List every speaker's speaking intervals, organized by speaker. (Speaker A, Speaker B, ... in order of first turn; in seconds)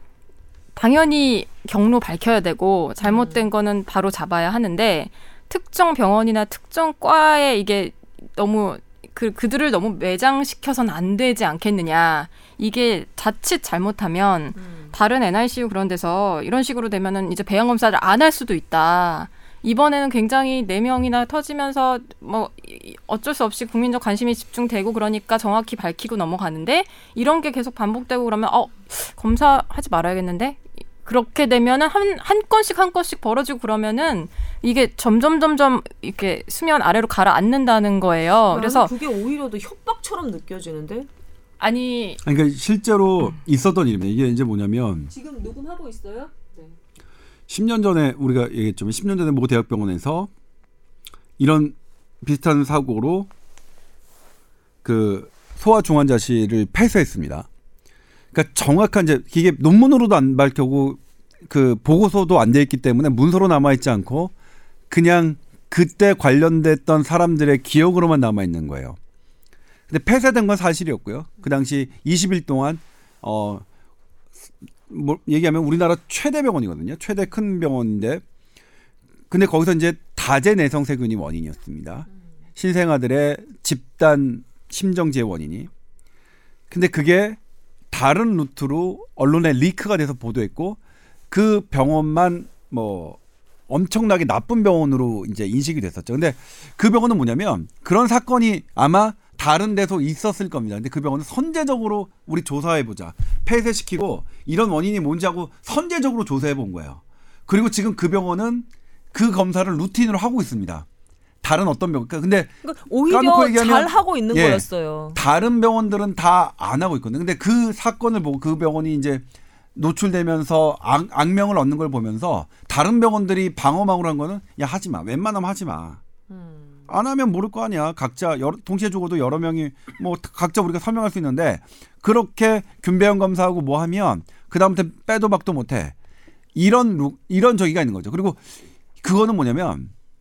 Speaker A: 0.7-38.9, 41.6-42.2
Speaker B: 3.0-3.5, 14.6-14.9, 38.5-41.1, 45.1-46.7, 112.6-115.2, 126.3-126.9
Speaker C: 42.2-45.1, 47.5-50.3, 51.4-53.3, 54.8-57.5, 58.3-64.3, 64.9-69.0, 69.9-73.6, 74.9-78.2, 79.3-85.7, 86.7-87.4, 87.9-90.8, 91.3-93.2, 93.7-110.9, 111.4-112.5, 113.1-119.2, 119.7-126.0, 126.9-135.9, 136.6-138.4, 139.0-139.9